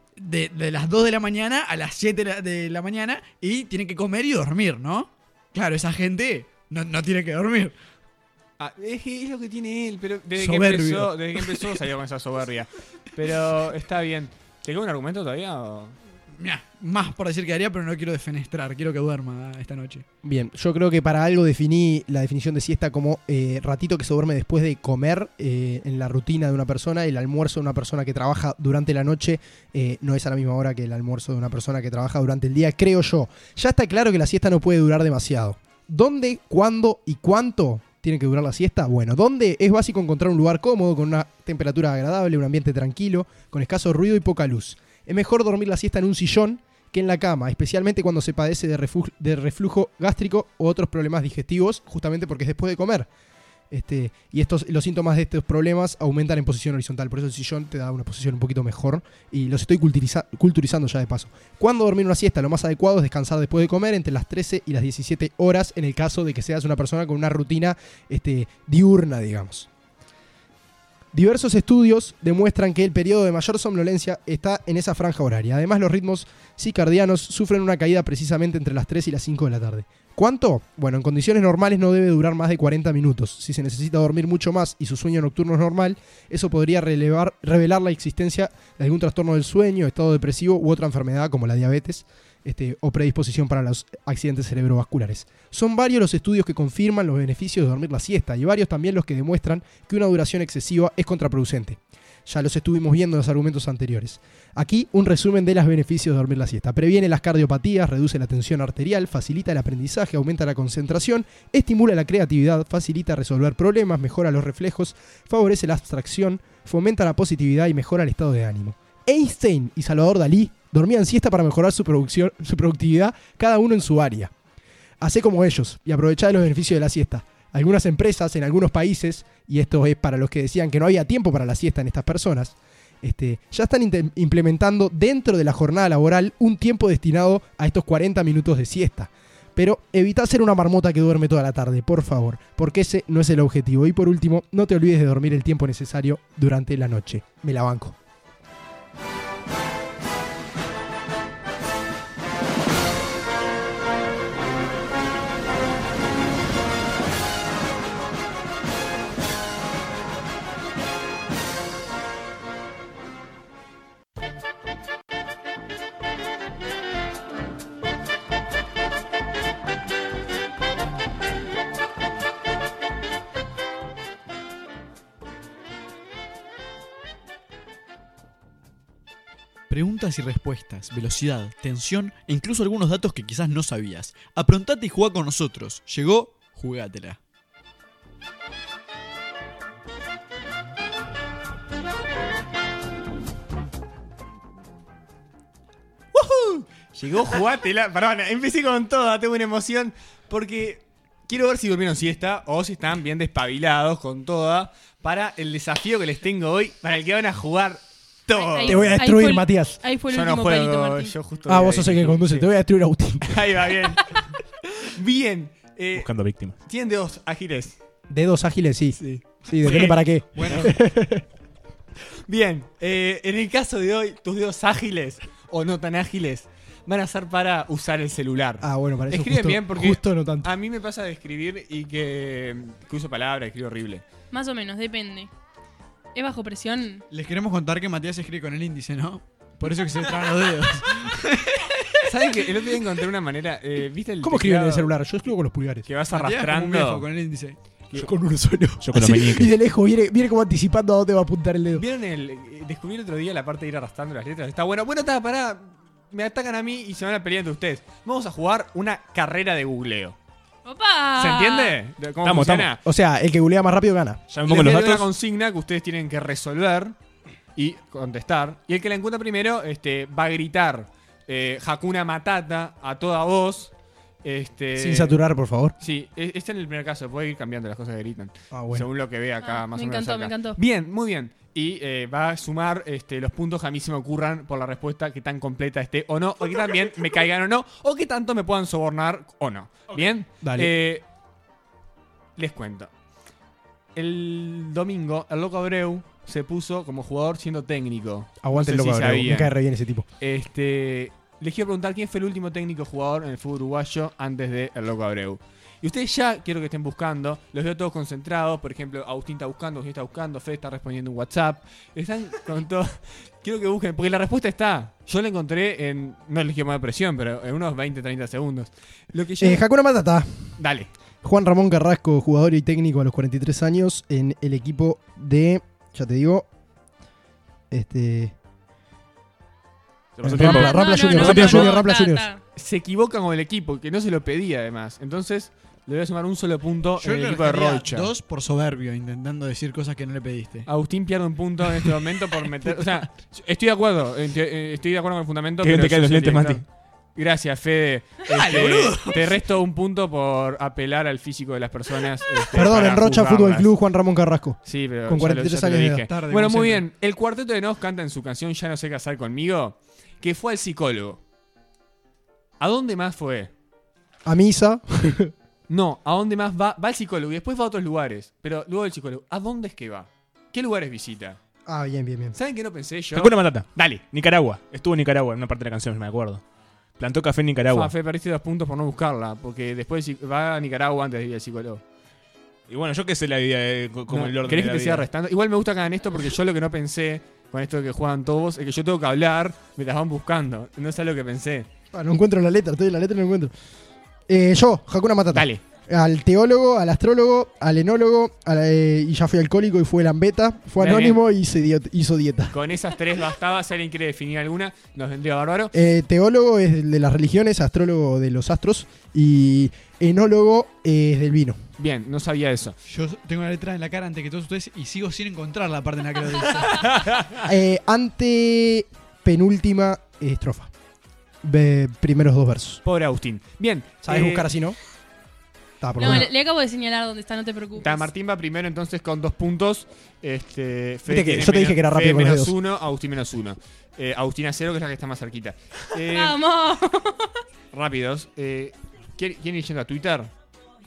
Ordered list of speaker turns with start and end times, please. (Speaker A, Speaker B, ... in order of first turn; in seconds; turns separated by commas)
Speaker A: 0.2-7.8, Speaker B: 8.6-16.0, Speaker A: 10.4-11.8, Speaker A: 16.4-20.1, Speaker C: 20.2-53.1, Speaker C: 53.7-69.7, Speaker C: 71.1-124.3, Speaker C: 125.0-148.0, Speaker A: 179.7-187.2, Speaker B: 196.1-208.9, Speaker D: 208.3-211.1, Speaker C: 208.7-209.8, Speaker B: 210.1-212.5, Speaker C: 211.5-213.4, Speaker B: 213.2-217.8, Speaker E: 215.9-216.6, Speaker C: 218.1-221.2, Speaker B: 219.6-220.7, Speaker A: 219.6-220.7, Speaker B: 222.3-234.0, Speaker C: 228.6-230.5, Speaker D: 234.3-235.3, Speaker D: 236.2-237.1, Speaker A: 237.1-242.4, Speaker B: 242.1-244.9, Speaker C: 244.2-245.9, Speaker B: 245.9-247.1, Speaker A: 246.1-247.6, Speaker C: 247.9-251.8, Speaker E: 248.8-249.5, Speaker B: 251.7-260.2, Speaker D: 260.6-261.8, Speaker B: 261.2-262.8, Speaker E: 262.2-262.7, Speaker C: 262.9-264.2, Speaker E: 264.3-265.1, Speaker B: 264.4-266.9, Speaker B: 267.6-275.2, Speaker C: 274.8-275.8, Speaker B: 275.8-291.0, Speaker C: 278.5-278.9, Speaker D: 279.4-280.6, Speaker C: 290.4-290.7, Speaker B: 292.4-292.9, Speaker B: 293.9-299.6, Speaker C: 298.4-300.1, Speaker B: 300.2-319.6, Speaker C: 319.4-320.6, Speaker B: 320.6-320.9, Speaker C: 321.2-326.5, Speaker C: 327.7-328.4, Speaker E: 330.2-331.7, Speaker C: 330.2-332.3, Speaker B: 330.3-330.5, Speaker D: 330.4-332.4, Speaker B: 331.2-331.6, Speaker B: 332.6-338.1, Speaker A: 337.0-340.7, Speaker B: 340.7-353.7, Speaker A: 342.6-343.1, Speaker E: 345.6-346.6, Speaker A: 348.3-349.4, Speaker C: 352.5-356.1, Speaker B: 354.6-361.2, Speaker A: 356.1-356.8, Speaker B: 362.6-363.5, Speaker C: 364.3-365.3, Speaker B: 365.7-371.4, Speaker C: 371.7-372.4, Speaker B: 372.4-374.0, Speaker E: 373.1-376.4, Speaker E: 377.0-377.9, Speaker B: 377.7-381.8, Speaker E: 382.7-385.1, Speaker B: 384.1-391.7, Speaker C: 391.9-393.5, Speaker C: 394.3-402.6, Speaker B: 395.3-395.6, Speaker B: 400.8-401.2, Speaker B: 402.5-405.7, Speaker C: 405.7-411.6, Speaker B: 411.8-412.8, Speaker A: 412.9-417.0, Speaker C: 417.4-420.7, Speaker C: 421.4-422.8, Speaker B: 422.8-424.5, Speaker C: 424.0-424.8, Speaker C: 425.8-426.3, Speaker D: 426.0-428.1, Speaker B: 427.8-436.4, Speaker C: 431.1-432.5, Speaker D: 436.1-437.4, Speaker B: 437.7-440.3